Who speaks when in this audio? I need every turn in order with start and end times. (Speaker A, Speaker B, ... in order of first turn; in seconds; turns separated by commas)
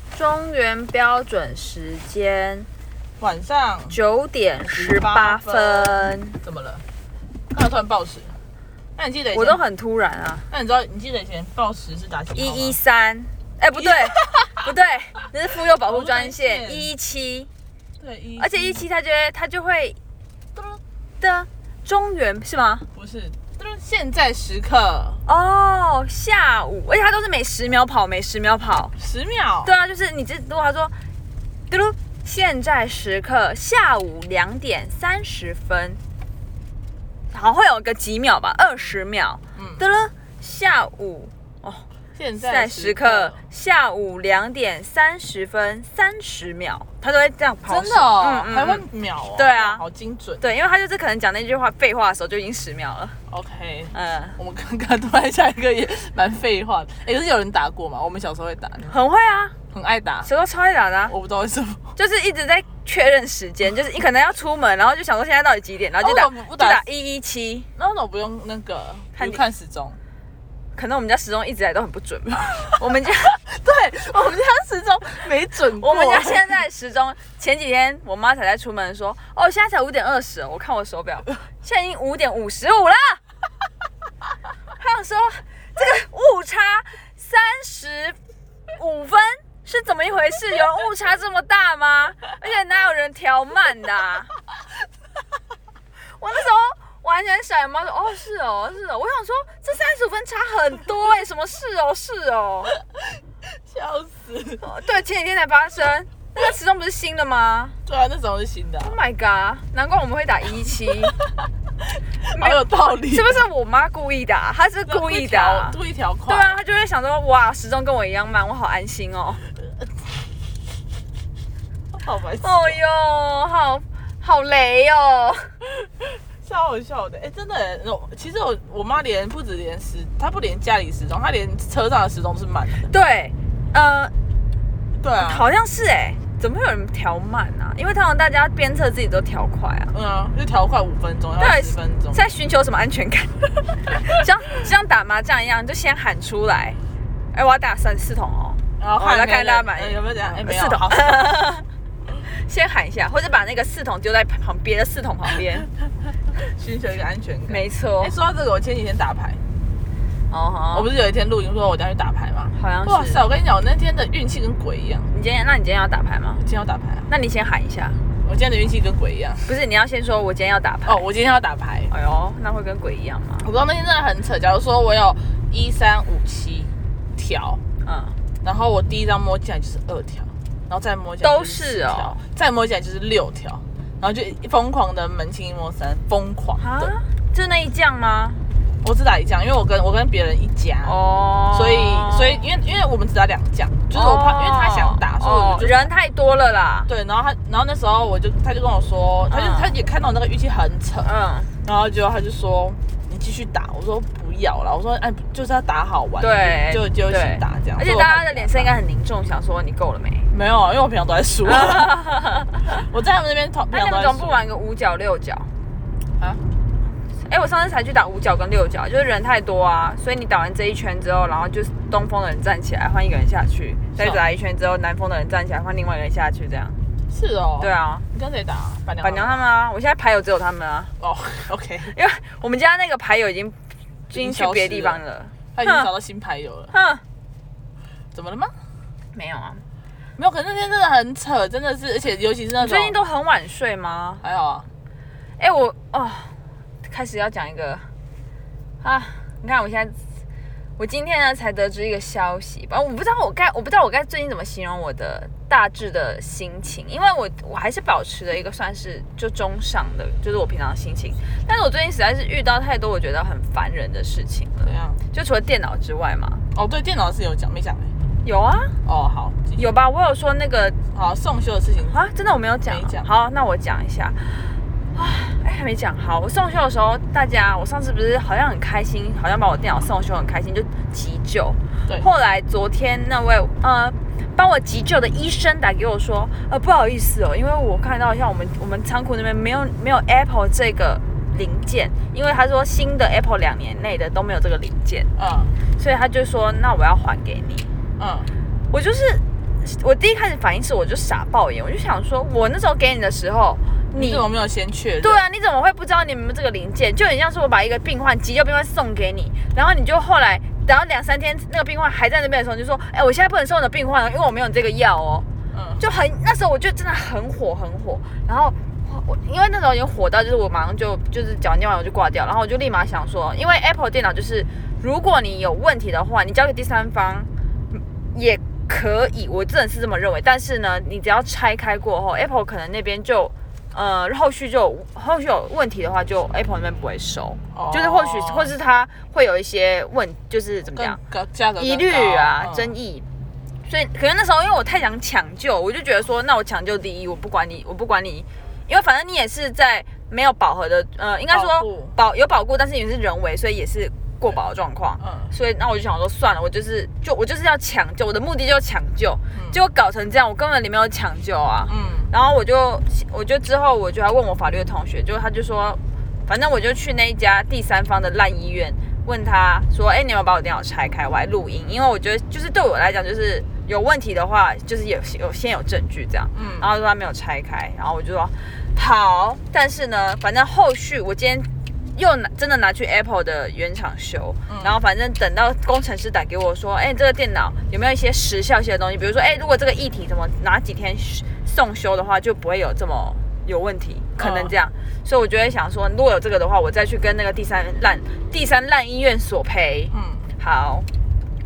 Speaker A: 0.1-2.7, Speaker B: 3.2-4.0, Speaker A: 3.9-6.4, Speaker B: 4.6-6.8, Speaker B: 7.5-8.3, Speaker B: 8.9-9.6, Speaker A: 9.3-10.5, Speaker B: 10.5-12.8, Speaker A: 12.3-17.5, Speaker B: 13.8-14.7, Speaker B: 15.8-16.9, Speaker B: 18.0-18.8, Speaker A: 18.4-20.0, Speaker A: 21.2-22.9, Speaker B: 22.9-25.2, Speaker A: 25.2-28.9, Speaker B: 29.0-29.7, Speaker A: 29.6-30.9, Speaker A: 31.7-36.0, Speaker A: 37.3-41.9, Speaker B: 39.5-39.8, Speaker B: 42.1-43.4, Speaker A: 42.4-49.8, Speaker B: 47.6-50.4, Speaker A: 50.4-53.2, Speaker B: 53.3-58.9, Speaker A: 53.9-54.4, Speaker A: 58.9-59.5, Speaker B: 59.7-60.3, Speaker A: 60.2-61.1, Speaker B: 61.1-61.9, Speaker A: 62.0-67.7, Speaker B: 66.0-66.8, Speaker B: 67.8-70.0, Speaker A: 69.2-69.4, Speaker A: 70.7-73.4, Speaker B: 73.4-76.5, Speaker A: 75.8-83.2, Speaker A: 84.8-88.2, Speaker A: 88.8-94.3, Speaker A: 96.2-102.7, Speaker B: 103.5-104.7, Speaker A: 104.6-107.8, Speaker B: 107.8-109.0, Speaker A: 108.8-111.1, Speaker B: 112.2-113.4, Speaker A: 112.3-119.4, Speaker B: 114.8-116.5, Speaker B: 121.9-122.8, Speaker A: 122.4-125.5, Speaker B: 125.8-132.9, Speaker A: 132.9-134.1, Speaker B: 135.0-135.4, Speaker A: 135.2-139.9, Speaker B: 139.9-142.2, Speaker A: 141.4-146.8, Speaker A: 147.3-155.7, Speaker B: 148.8-151.3, Speaker B: 156.3-159.4, Speaker A: 157.5-158.1, Speaker A: 160.3-160.9, Speaker B: 160.7-165.1, Speaker A: 162.5-163.2, Speaker A: 165.1-166.4, Speaker B: 166.4-167.1, Speaker A: 167.1-168.0, Speaker B: 168.2-169.5, Speaker A: 169.5-171.0, Speaker B: 170.8-171.9, Speaker A: 171.9-173.5, Speaker B: 173.4-177.6, Speaker A: 177.8-178.2, Speaker B: 178.4-186.9, Speaker A: 181.2-182.2, Speaker A: 186.6-188.4, Speaker B: 188.8-191.0, Speaker A: 190.8-192.5, Speaker B: 191.5-195.9, Speaker A: 193.9-196.9, Speaker B: 196.8-201.1, Speaker A: 199.3-199.8, Speaker A: 201.0-201.5, Speaker B: 201.6-208.7, Speaker A: 206.2-210.3, Speaker B: 210.3-212.0, Speaker A: 211.4-212.6, Speaker B: 212.6-214.4, Speaker A: 213.7-215.5, Speaker A: 217.2-226.8, Speaker B: 223.9-224.2, Speaker B: 227.1-229.4, Speaker A: 227.6-228.1, Speaker A: 229.0-230.9, Speaker B: 231.0-231.9, Speaker A: 231.9-233.6, Speaker B: 234.1-235.0, Speaker A: 234.1-235.9, Speaker B: 235.5-236.7, Speaker A: 236.7-237.0, Speaker B: 238.1-238.5, Speaker A: 239.1-239.6, Speaker B: 240.2-243.0, Speaker A: 242.6-244.2, Speaker B: 244.2-244.7, Speaker A: 245.4-247.8, Speaker A: 248.8-250.0, Speaker A: 250.8-266.4, Speaker B: 264.6-265.0, Speaker B: 266.5-267.9, Speaker A: 268.2-268.8, Speaker B: 268.8-269.6, Speaker A: 269.6-270.8, Speaker B: 270.9-272.0, Speaker A: 271.9-295.1, Speaker B: 272.7-273.1, Speaker B: 295.2-295.5, Speaker A: 295.8-297.7, Speaker B: 298.0-298.3, Speaker A: 298.7-304.2, Speaker B: 303.9-305.2, Speaker A: 305.0-315.2, Speaker B: 315.5-315.8, Speaker A: 315.8-341.0, Speaker B: 337.5-338.5, Speaker B: 340.7-342.7, Speaker A: 341.6-343.1, Speaker A: 343.6-400.9, Speaker B: 351.3-351.9, Speaker B: 355.0-355.3, Speaker B: 359.3-359.6, Speaker B: 361.7-362.1, Speaker B: 376.3-376.7, Speaker B: 384.5-384.8, Speaker B: 394.2-394.5, Speaker B: 399.9-400.3